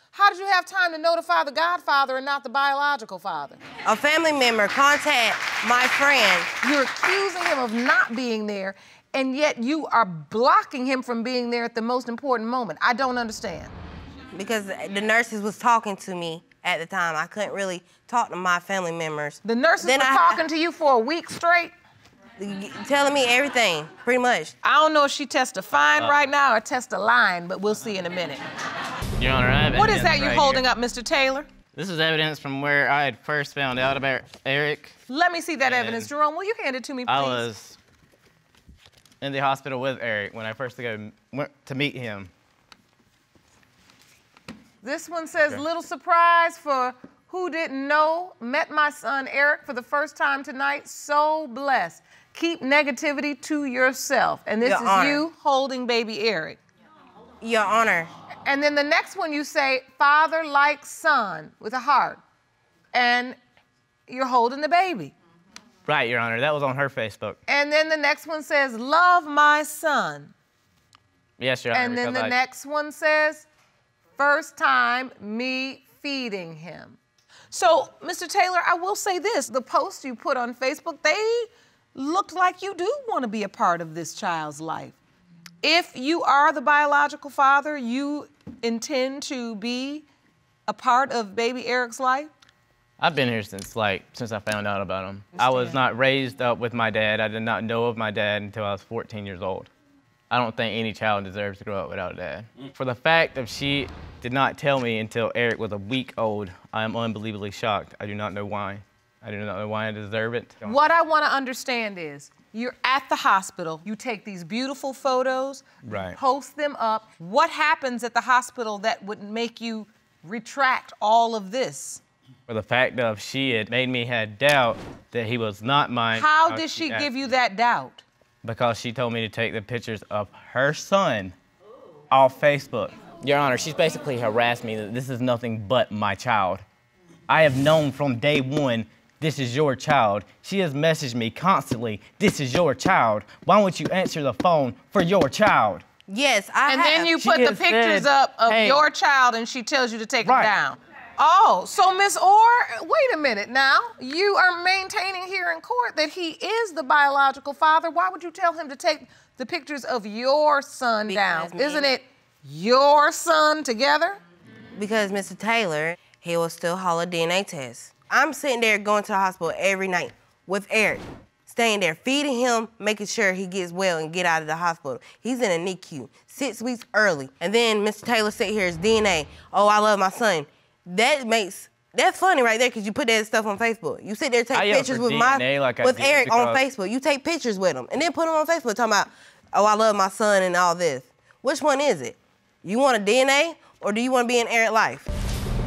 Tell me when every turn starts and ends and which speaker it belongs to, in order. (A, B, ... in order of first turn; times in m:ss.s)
0:00.1-0:03.6 A
0:03.8-0:06.5 B
0:06.6-0:13.7 A
0:14.3-0:20.4 B
0:19.4-0:21.7 A
0:22.4-0:24.5 B
0:24.6-0:28.4 A
0:29.2-0:30.6 C
0:29.7-0:31.5 A
0:31.7-0:35.0 C
0:35.1-0:37.4 A
0:35.6-0:36.1 C
0:37.1-0:37.8 C
0:39.2-0:42.3 C
0:44.8-0:56.6 A
0:54.6-0:55.2 B
0:57.4-0:58.1 B
0:58.4-1:02.2 A
1:02.9-1:03.4 A
1:04.1-1:05.1 A
1:05.8-1:07.4 C
1:07.5-1:10.3 A
1:11.4-1:12.3 C
1:11.7-1:13.4 A
1:14.2-1:17.0 A
1:17.5-1:25.0 A
1:25.6-1:30.0 A
1:30.7-1:32.3 A
1:33.0-1:39.7 C
1:35.4-1:35.7 A
1:40.3-1:50.8 C
1:50.6-2:02.0 A
1:55.8-1:56.2 C
2:02.5-2:07.1 C
2:06.1-2:08.0 A
2:08.4-2:11.3 C
2:12.1-2:16.6 C
2:17.3-2:25.8 C
2:26.1-2:27.2 B
2:26.6-2:44.2 A
2:27.2-2:28.8 C
2:30.2-2:30.5 C
2:41.1-2:41.9 B
2:44.7-3:15.0 B
3:04.5-3:06.6 C